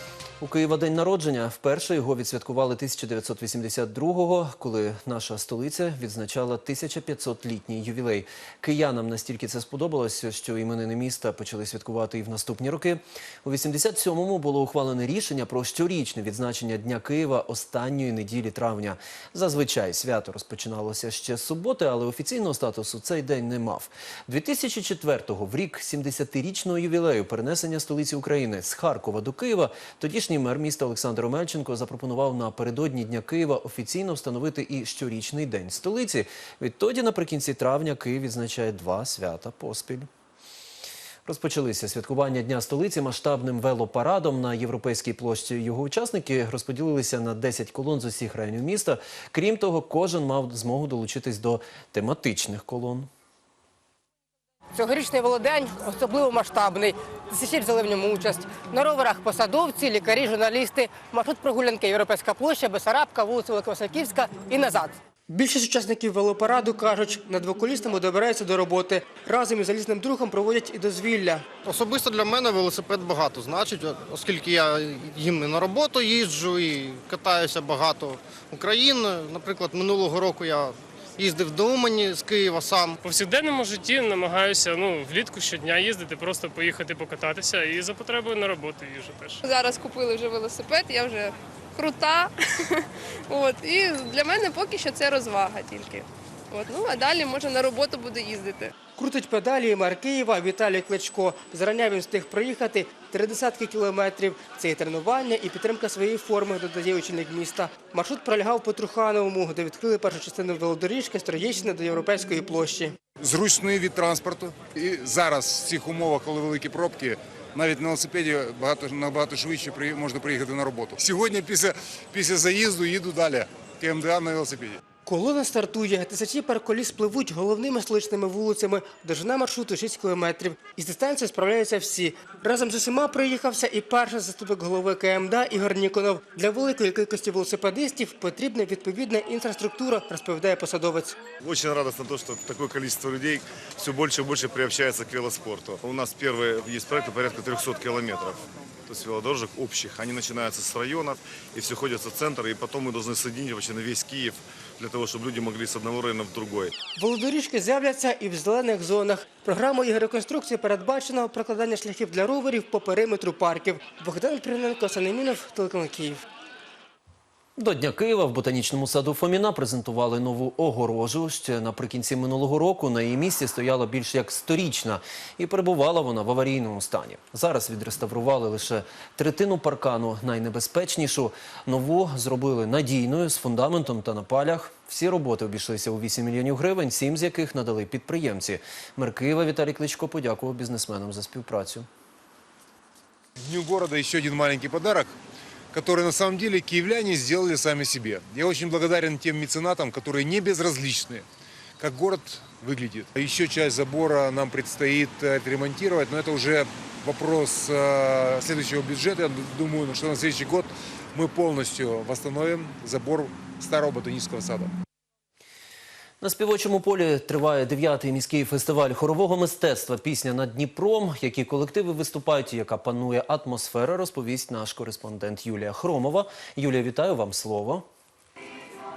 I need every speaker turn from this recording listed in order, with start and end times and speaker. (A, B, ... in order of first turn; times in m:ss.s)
0:00.4-0:40.1 A
0:41.2-0:53.1 A
0:54.8-1:11.4 B
1:11.6-1:23.0 C
1:23.1-1:29.4 D
1:29.4-1:38.7 E
1:39.0-1:52.9 B
1:53.3-2:01.4 F
1:53.5-1:54.5 G
1:58.8-1:59.5 G
2:00.5-2:01.7 G
2:02.1-2:03.0 F
2:03.0-2:03.4 G
2:03.8-2:04.8 F
2:04.0-2:04.5 G
2:05.0-2:21.2 B
2:21.5-2:36.7 G
2:37.0-2:46.2 B
2:47.6-3:11.9 A
3:13.5-3:15.1 F
3:15.7-3:21.2 F
3:21.8-3:22.8 F
3:22.8-3:23.7 G
3:23.4-3:34.7 F
3:36.2-3:47.8 A